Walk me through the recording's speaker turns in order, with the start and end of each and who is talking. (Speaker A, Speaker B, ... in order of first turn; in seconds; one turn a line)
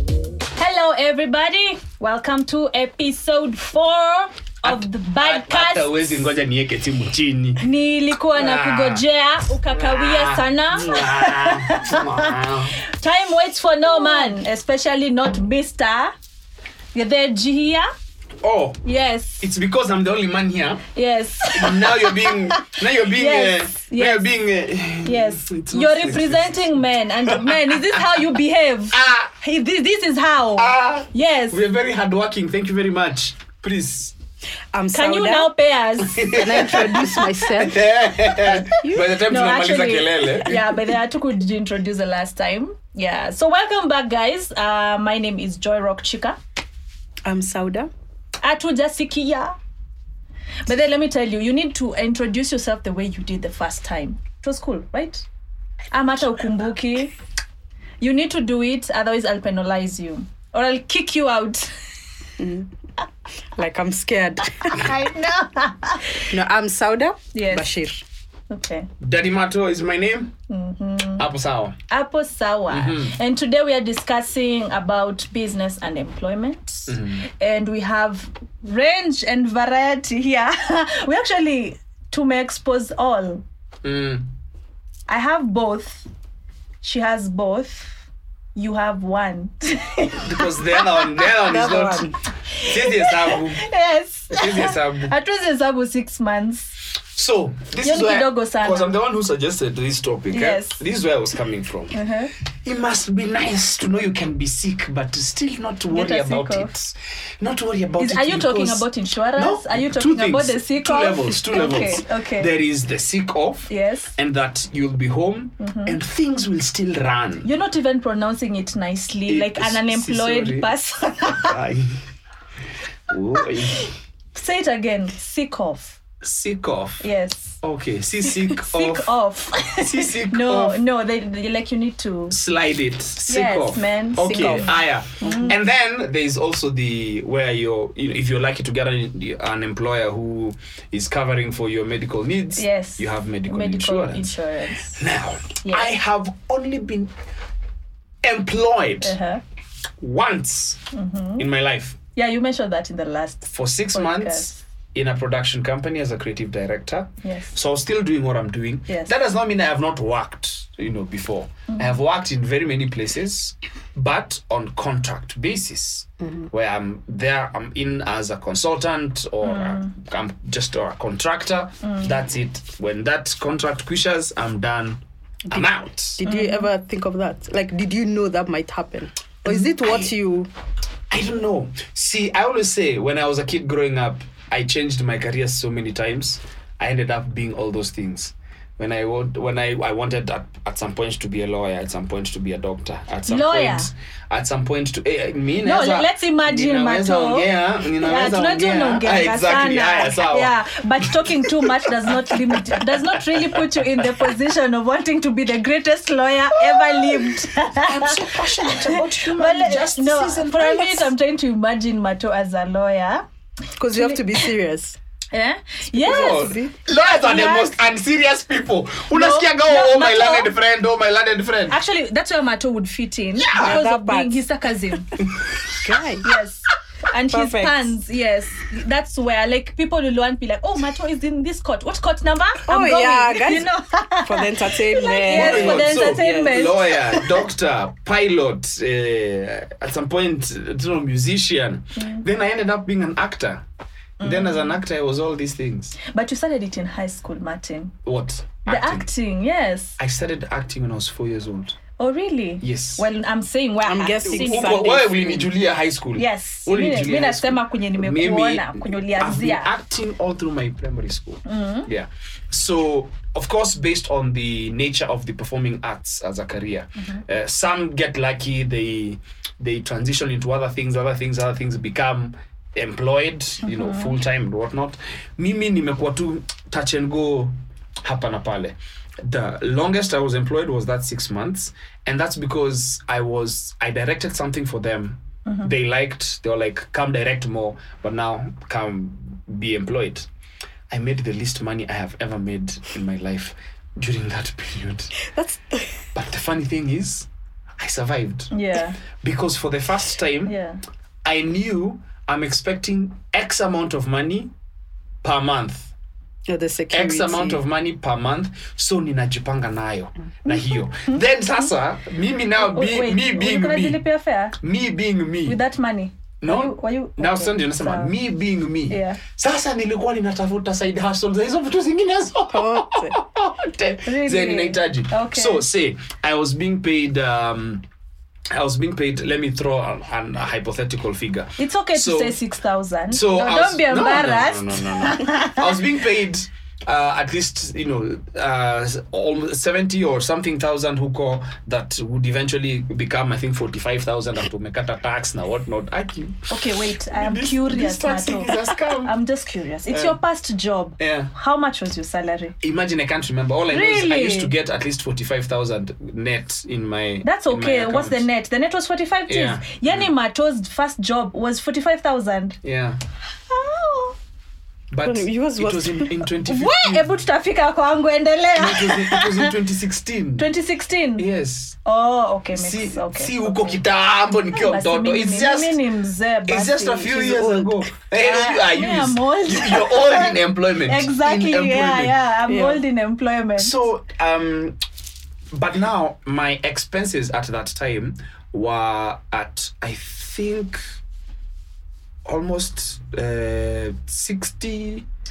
Speaker A: 0.6-6.0
Speaker B: 4.6-7.7
Speaker A: 7.6-12.3
Speaker B: 8.3-9.0
Speaker B: 9.7-12.8
Speaker A: 12.9-16.1
Speaker A: 16.9-17.9
Speaker B: 18.4-18.8
Speaker A: 18.8-19.5
Speaker B: 19.4-20.8
Speaker A: 20.9-24.3
Speaker B: 21.5-26.7
Speaker A: 25.0-31.6
Speaker B: 27.3-28.3
Speaker B: 28.9-29.3
Speaker B: 30.6-34.1
Speaker C: 34.7-35.5
Speaker A: 34.9-37.3
Speaker B: 36.0-40.6
Speaker C: 36.3-37.8
Speaker A: 38.3-38.7
Speaker C: 38.7-39.2
Speaker A: 39.3-46.4
Speaker C: 40.5-40.9
Speaker C: 47.2-47.9
Speaker A: 48.4-49.5
Speaker A: 50.7-55.2
Speaker A: 55.9-57.1
Speaker A: 58.0-61.7
Speaker C: 62.4-62.7
Speaker C: 63.6-64.9
Speaker A: 64.7-66.3
Speaker C: 66.2-68.0
Speaker A: 67.3-67.7
Speaker A: 68.5-68.9
Speaker B: 69.0-70.3
Speaker A: 70.5-71.3
Speaker B: 71.2-71.8
Speaker A: 71.9-83.4
Speaker B: 72.7-73.2
Speaker B: 76.9-77.2
Speaker B: 83.8-84.3
Speaker A: 85.1-86.1
Speaker A: 86.8-88.0
Speaker A: 88.6-91.3
Speaker B: 90.2-93.7
Speaker C: 91.4-92.1
Speaker A: 92.5-96.7
Speaker B: 94.3-95.1
Speaker B: 97.1-102.0
Speaker A: 97.8-99.0
Speaker A: 100.3-100.8
Speaker A: 101.9-102.3
Speaker B: 102.6-117.5
Speaker A: 105.9-106.7
Speaker A: 108.0-112.5
Speaker A: 113.7-114.1
Speaker A: 115.6-116.0
Speaker A: 117.4-121.6
Speaker B: 119.3-120.7
Speaker B: 121.4-122.0
Speaker B: 123.1-123.9
Speaker A: 123.6-126.0
Speaker B: 126.2-127.1
Speaker A: 127.0-127.6
Speaker B: 127.6-129.1
Speaker A: 128.2-132.4
Speaker B: 129.7-130.8
Speaker B: 132.3-144.4
Speaker A: 133.3-135.6
Speaker C: 134.2-135.5
Speaker A: 142.6-145.1
Speaker B: 144.9-147.1
Speaker A: 145.6-145.9
Speaker B: 148.2-149.2
Speaker A: 149.0-149.4
Speaker B: 150.0-150.8
Speaker A: 150.9-151.5
Speaker B: 151.4-152.0
Speaker A: 152.2-154.6
Speaker B: 153.5-176.2
Speaker A: 157.2-157.5
Speaker A: 161.7-162.0
Speaker A: 169.4-169.9
Speaker C: 176.2-180.5
Speaker A: 176.2-176.7
Speaker B: 179.8-180.1
Speaker B: 181.1-201.7
Speaker A: 193.3-193.9
Speaker A: 195.6-213.2
Speaker B: 202.3-204.1
Speaker B: 206.7-211.0
Speaker C: 213.8-215.0
Speaker A: 213.9-214.3
Speaker A: 215.3-217.8
Speaker C: 215.9-216.7
Speaker B: 216.1-221.8
Speaker A: 219.1-220.5
Speaker A: 221.7-225.1
Speaker B: 223.5-223.8
Speaker C: 223.5-224.4
Speaker B: 225.4-225.8
Speaker C: 225.8-226.3
Speaker A: 226.2-236.9
Speaker C: 227.3-227.9
Speaker C: 232.7-237.4
Speaker B: 235.3-243.7
Speaker A: 242.0-242.2
Speaker A: 244.2-244.8
Speaker B: 244.2-246.0
Speaker A: 246.1-247.9
Speaker B: 248.1-249.1
Speaker A: 248.7-250.0
Speaker B: 250.0-251.8
Speaker A: 252.0-254.9
Speaker B: 252.6-253.1
Speaker C: 253.8-255.5
Speaker B: 254.2-290.3
Speaker A: 256.2-259.7
Speaker A: 261.4-261.9
Speaker A: 273.6-274.2
Speaker B: 290.9-295.1
Speaker C: 295.2-296.1
Speaker B: 296.1-297.3
Speaker B: 297.8-298.5
Speaker A: 298.5-299.0
Speaker B: 299.2-300.6
Speaker A: 300.5-300.8
Speaker B: 301.2-304.5
Speaker B: 305.2-305.9
Speaker C: 306.5-307.6
Speaker B: 306.9-314.0
Speaker A: 310.5-311.6
Speaker A: 312.6-314.6
Speaker B: 314.6-315.6
Speaker A: 315.5-318.1
Speaker B: 316.4-327.9
Speaker A: 318.9-319.2
Speaker C: 322.5-323.2
Speaker A: 324.1-325.7
Speaker B: 328.5-332.4
Speaker A: 331.6-335.7
Speaker B: 333.1-346.5
Speaker A: 346.5-352.6
Speaker B: 347.1-349.1
Speaker B: 349.9-350.2
Speaker B: 351.0-351.3
Speaker B: 352.6-358.3
Speaker A: 353.7-354.5
Speaker A: 357.2-362.6
Speaker B: 359.3-360.1
Speaker B: 362.6-363.0
Speaker A: 363.5-364.2
Speaker B: 364.9-367.1
Speaker C: 365.0-366.2
Speaker A: 366.5-369.5
Speaker B: 368.6-370.5
Speaker A: 370.4-371.3
Speaker B: 371.2-371.8
Speaker A: 371.9-373.8
Speaker B: 372.5-375.8
Speaker A: 374.5-377.5
Speaker B: 376.5-382.1
Speaker C: 377.4-377.8
Speaker A: 378.2-383.8
Speaker C: 382.5-382.8
Speaker B: 383.6-384.8
Speaker B: 385.5-390.8
Speaker B: 392.3-395.1